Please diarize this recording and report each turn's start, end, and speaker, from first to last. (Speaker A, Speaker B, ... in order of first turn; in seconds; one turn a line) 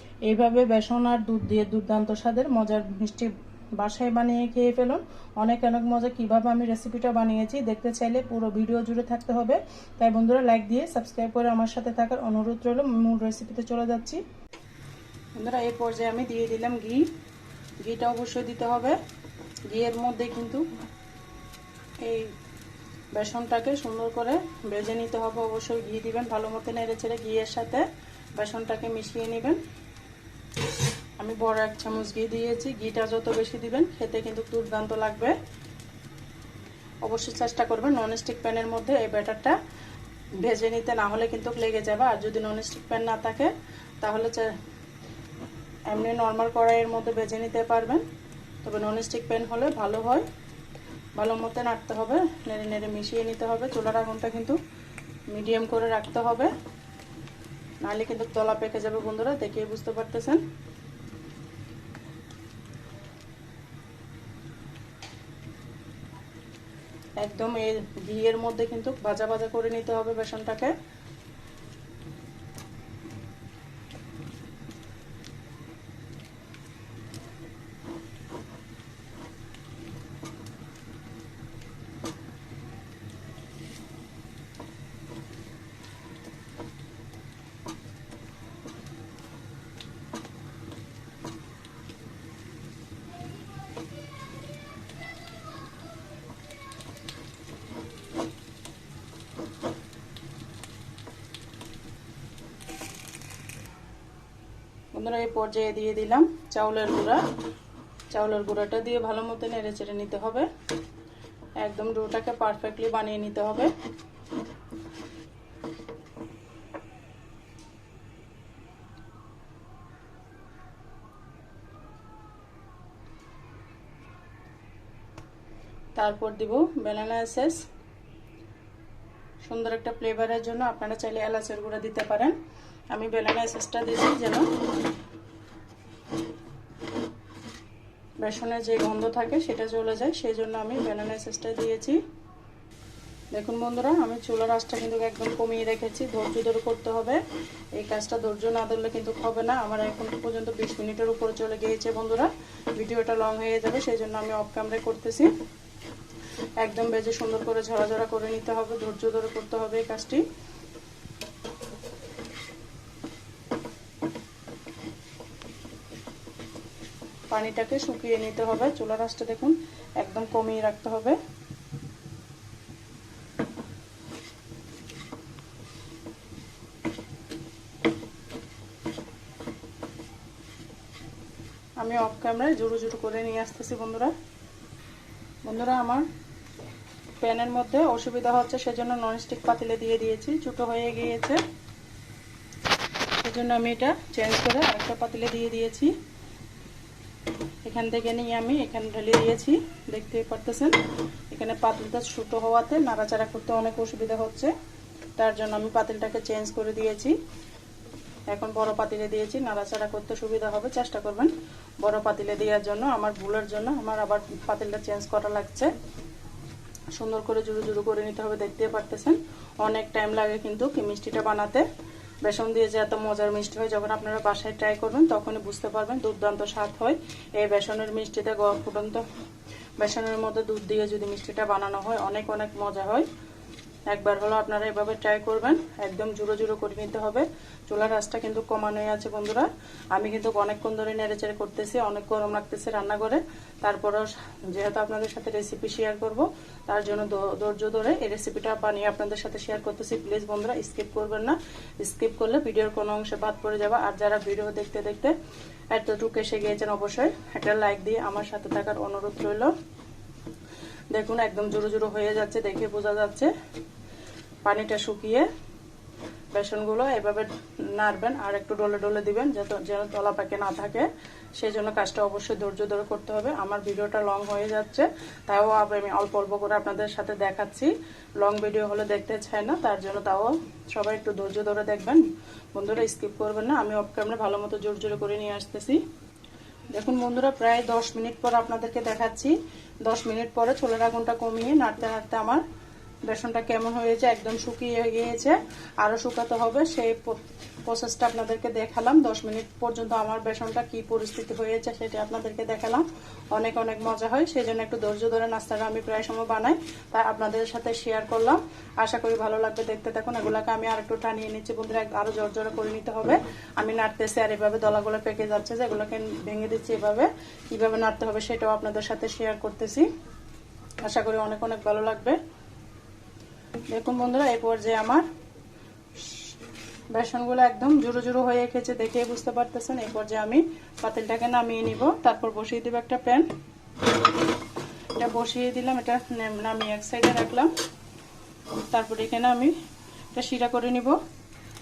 Speaker A: 0.2-14.2
Speaker A: 15.4-17.1
Speaker A: 17.8-19.0
Speaker A: 19.7-20.6
Speaker A: 22.0-22.3
Speaker A: 23.2-27.9
Speaker A: 28.4-29.6
Speaker A: 31.2-35.3
Speaker A: 37.0-39.6
Speaker A: 40.4-44.5
Speaker A: 45.9-48.0
Speaker A: 48.6-50.2
Speaker A: 51.2-54.6
Speaker A: 55.3-56.5
Speaker A: 57.8-60.4
Speaker A: 67.2-70.7
Speaker A: 104.9-107.2
Speaker A: 108.1-110.5
Speaker A: 111.6-113.7
Speaker A: 126.0-127.7
Speaker A: 129.4-132.3
Speaker A: 132.9-134.5
Speaker A: 138.2-142.0
Speaker A: 143.3-147.2
Speaker A: 147.8-155.3
Speaker A: 156.6-160.2
Speaker A: 167.3-171.2
Speaker A: 181.8-184.1
Speaker A: 185.4-186.1
Speaker A: 187.2-191.4
Speaker A: 193.2-195.9
Speaker A: 197.7-200.8
Speaker A: 201.3-204.5
Speaker A: 205.2-207.2
Speaker A: 208.3-215.7
Speaker A: 216.9-221.7
Speaker A: 222.2-229.0
Speaker A: 229.8-233.1
Speaker A: 233.9-255.2
Speaker A: 255.7-259.5
Speaker A: 260.9-263.3
Speaker A: 264.4-265.3
Speaker A: 266.3-285.8
Speaker A: 286.8-292.4
Speaker A: 293.1-319.9
Speaker A: 320.8-322.2
Speaker A: 323.7-325.1
Speaker A: 326.9-333.3
Speaker A: 334.9-337.5
Speaker A: 338.7-339.5
Speaker A: 340.1-341.0